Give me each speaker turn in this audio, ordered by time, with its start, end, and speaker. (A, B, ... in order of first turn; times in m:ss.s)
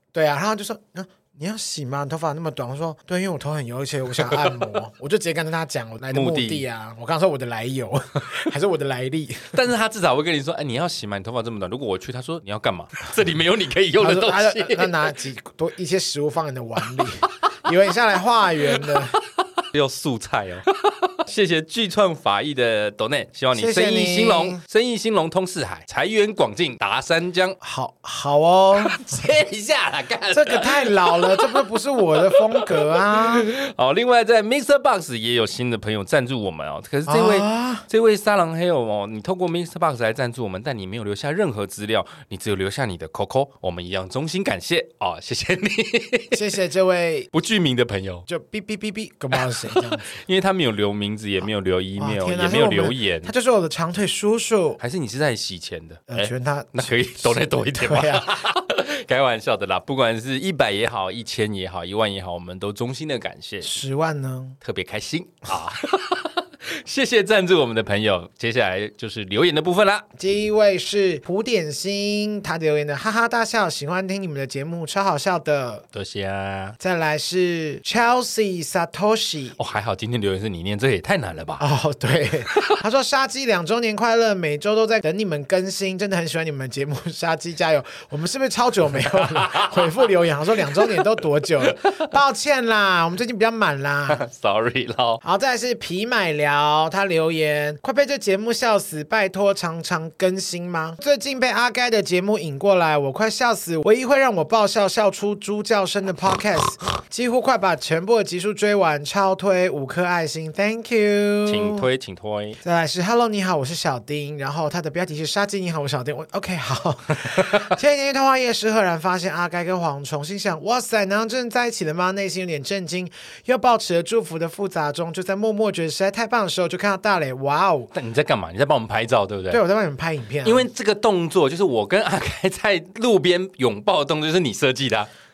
0:00.1-0:09.6 A
0:04.2-0:04.6 B
0:06.1-0:06.6 B
0:09.5-0:15.1 B
0:14.0-0:19.2 A
0:19.1-0:27.6 B
0:23.5-0:24.6 A
0:27.6-0:29.2 A
0:28.8-0:31.7 B
0:30.3-0:33.5 A
0:32.3-0:46.4 B
0:37.1-0:37.8 A
0:46.3-0:47.3 A
0:47.3-0:48.2 B
0:48.3-0:50.1 A
0:49.3-0:53.3 B
0:52.0-0:54.8 A
0:54.8-1:03.7 B
0:56.1-0:58.4 A
1:03.6-1:04.6 A
1:04.6-1:10.0 B
1:10.2-1:15.8 A
1:15.9-1:16.8 B
1:16.8-1:19.6 A
1:19.6-1:21.6 B
1:21.6-1:34.2 A
1:29.1-1:29.9 B
1:31.6-1:32.0 B
1:34.1-1:35.2 B
1:35.2-1:51.9 A
1:51.5-1:52.6 B
1:52.6-2:07.9 A
1:57.3-1:57.6 B
2:07.9-2:09.6 B
2:09.5-2:10.6 A
2:10.4-2:15.1 B